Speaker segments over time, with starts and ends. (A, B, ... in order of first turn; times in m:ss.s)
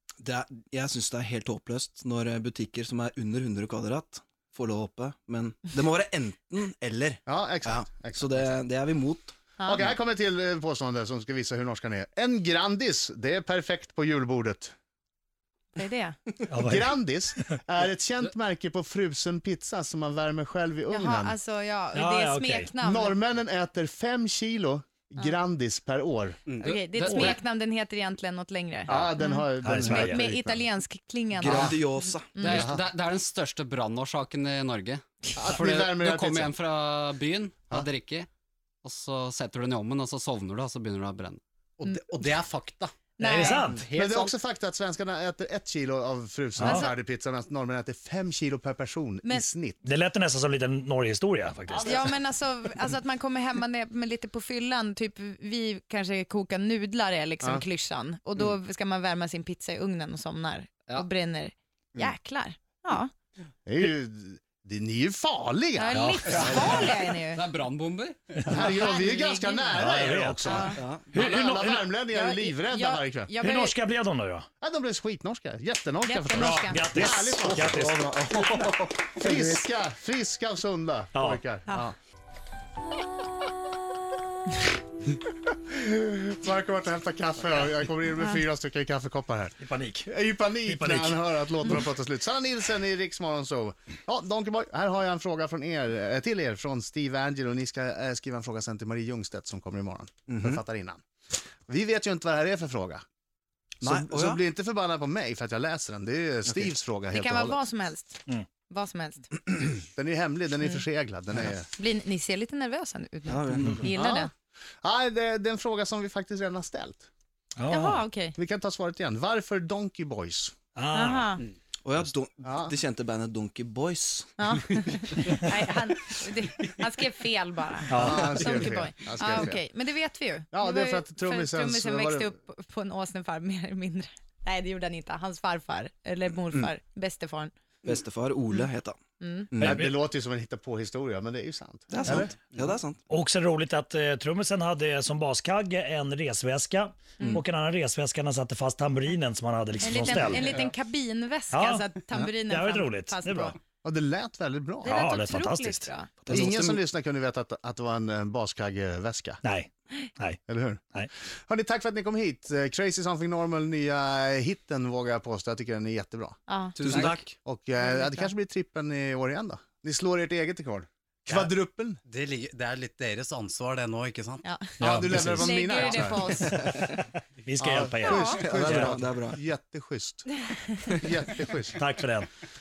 0:00.2-0:09.3 A
0:07.3-0:08.5 B
0:09.6-0:09.9 C
0:09.6-0:14.7 B
0:15.8-0:16.2 C
0:16.5-0:17.0 D
0:16.6-0:21.4 B
0:20.9-0:23.2 C
0:22.0-0:22.7 D
0:22.8-0:26.4 B
0:26.5-0:27.4 E
0:26.6-0:32.7 C
0:26.6-0:27.4 F
0:28.9-0:30.7 B
0:29.6-0:30.2 D
0:31.4-0:32.4 A
0:31.4-0:31.8 F
0:32.4-0:38.3 F
0:32.5-0:32.8 B
0:35.4-0:36.5 B
0:38.8-0:41.4 F
0:41.8-0:43.0 E
0:43.2-0:43.7 C
0:43.2-0:43.9 D
0:43.3-0:44.3 F
0:43.9-0:49.8 B
0:46.6-0:46.9 D
0:46.6-0:46.9 C
0:49.8-0:52.0 D
0:51.8-1:03.1 C
1:03.7-1:06.7 B
1:05.8-1:07.4 C
1:06.0-1:06.3 D
1:06.3-1:08.4 F
1:08.4-1:08.7 D
1:08.5-1:13.3 B
1:08.5-1:09.9 C
1:09.8-1:11.8 D
1:10.4-1:10.8 C
1:10.8-1:11.1 A
1:12.1-1:13.8 C
1:13.4-1:14.5 D
1:14.6-1:17.9 B
1:16.0-1:16.8 C
1:16.4-1:18.1 D
1:17.4-1:19.6 A
1:19.2-1:22.0 B
1:21.2-1:21.4 D
1:25.7-1:29.6 B
1:29.6-1:30.1 D
1:30.1-1:41.0 B
1:30.6-1:31.2 D
1:40.3-1:40.6 A
1:41.7-1:43.0 B
1:43.8-1:47.6 B
1:43.8-1:44.4 A
1:46.5-1:46.7 A
1:47.1-1:49.3 C
1:49.9-1:51.7 B
1:51.8-1:54.3 C
1:53.3-1:53.9 A
1:53.9-1:54.3 B
1:54.8-1:57.1 B
1:57.6-1:58.0 D
1:57.7-1:58.4 C
1:58.4-2:00.6 B
2:00.8-2:01.3 D
2:00.9-2:01.4 C
2:01.8-2:04.5 A
2:02.4-2:02.7 B
2:04.4-2:17.5 C
2:07.9-2:08.3 D
2:07.9-2:09.6 B
2:10.5-2:12.3 B
2:17.8-2:19.0 A
2:19.2-2:19.5 C
2:19.5-2:19.9 A
2:19.6-2:22.3 B
2:19.6-2:20.0 D
2:21.9-2:23.0 A
2:23.1-2:30.5 D
2:29.8-2:33.6 C
2:29.9-2:30.7 B
2:31.5-2:33.6 D
2:33.8-2:35.0 B
2:34.8-2:36.1 C
2:34.9-2:35.9 D
2:36.2-2:36.8 A
2:36.3-2:39.4 B
2:39.4-2:40.4 D
2:40.5-2:40.8 B
2:41.5-2:52.0 B
2:46.5-2:46.8 C
2:46.8-2:47.4 E
2:46.8-2:47.2 A
2:47.8-2:48.3 C
2:51.3-2:54.5 E
2:54.4-2:54.7 C
2:54.8-2:55.6 D
2:54.8-2:56.4 B
2:55.3-2:56.6 C
2:57.4-2:59.0 D
2:57.6-3:00.3 B
2:58.0-2:58.4 C
2:58.4-2:59.4 A
3:00.9-3:01.8 B
3:01.8-3:02.3 D